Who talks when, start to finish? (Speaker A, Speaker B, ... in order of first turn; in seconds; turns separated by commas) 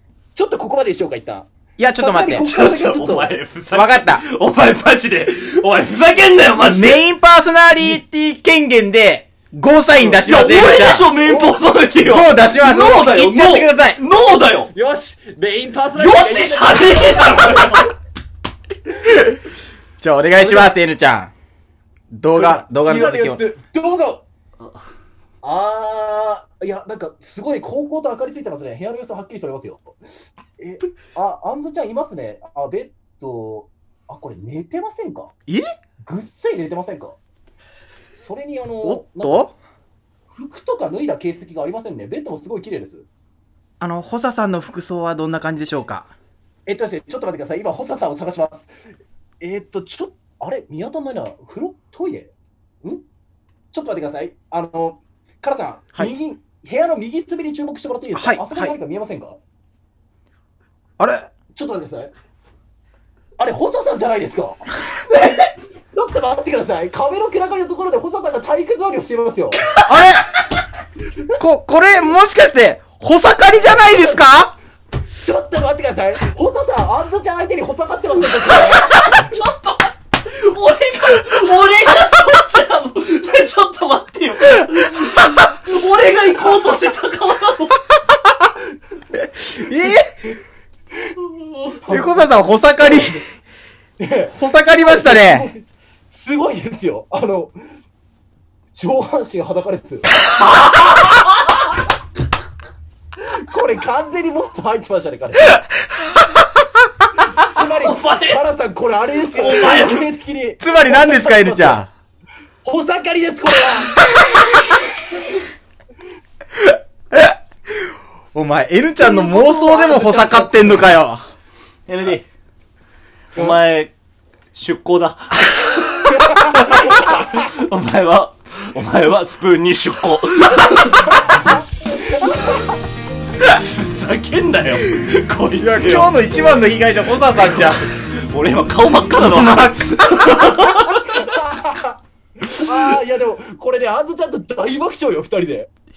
Speaker A: 0.4-3.3, Speaker B: 1.8-2.5, Speaker C: 2.4-7.1, Speaker B: 3.7-4.2, Speaker B: 6.6-11.2, Speaker C: 7.8-8.0, Speaker A: 10.0-10.2, Speaker C: 10.2-14.7, Speaker A: 11.2-11.6, Speaker B: 12.0-14.0, Speaker A: 14.7-17.8, Speaker C: 15.9-17.9, Speaker B: 20.0-21.3, Speaker C: 20.4-20.7, Speaker B: 22.1-23.4, Speaker A: 22.3-24.2, Speaker A: 25.4-29.9, Speaker A: 30.6-35.3, Speaker A: 36.1-37.2, Speaker A: 38.2-39.5, Speaker B: 38.8-39.5, Speaker A: 40.3-43.1, Speaker B: 43.8-46.1, Speaker A: 46.7-48.7, Speaker A: 49.4-52.3, Speaker A: 53.7-59.4, Speaker B: 58.1-58.7, Speaker B: 61.0-61.3, Speaker A: 61.5-62.1, Speaker A: 63.4-69.7, Speaker C: 69.7-69.9, Speaker B: 69.8-70.3, Speaker B: 71.4-74.5, Speaker A: 73.7-74.3, Speaker A: 75.2-79.3, Speaker C: 78.9-87.8, Speaker B: 89.2-90.2, Speaker A: 91.8-93.2, Speaker B: 91.9-93.2, Speaker A: 94.0-97.5, Speaker B: 94.3-95.5, Speaker A: 98.8-100.1, Speaker C: 100.4-101.6, Speaker A: 103.4-105.6, Speaker A: 107.3-111.8, Speaker C: 107.8-108.4, Speaker C: 109.3-110.1, Speaker B: 110.6-111.9, Speaker A: 112.6-113.9, Speaker B: 116.6-121.2, Speaker A: 119.0-120.9, Speaker C: 121.9-122.2, Speaker C: 123.3-123.9, Speaker C: 124.5-131.4, Speaker A: 126.2-127.3, Speaker A: 132.2-132.5, Speaker C: 133.4-136.2, Speaker B: 135.6-137.9, Speaker C: 137.4-141.3, Speaker B: 139.1-140.8, Speaker A: 141.1-142.0, Speaker A: 142.5-145.7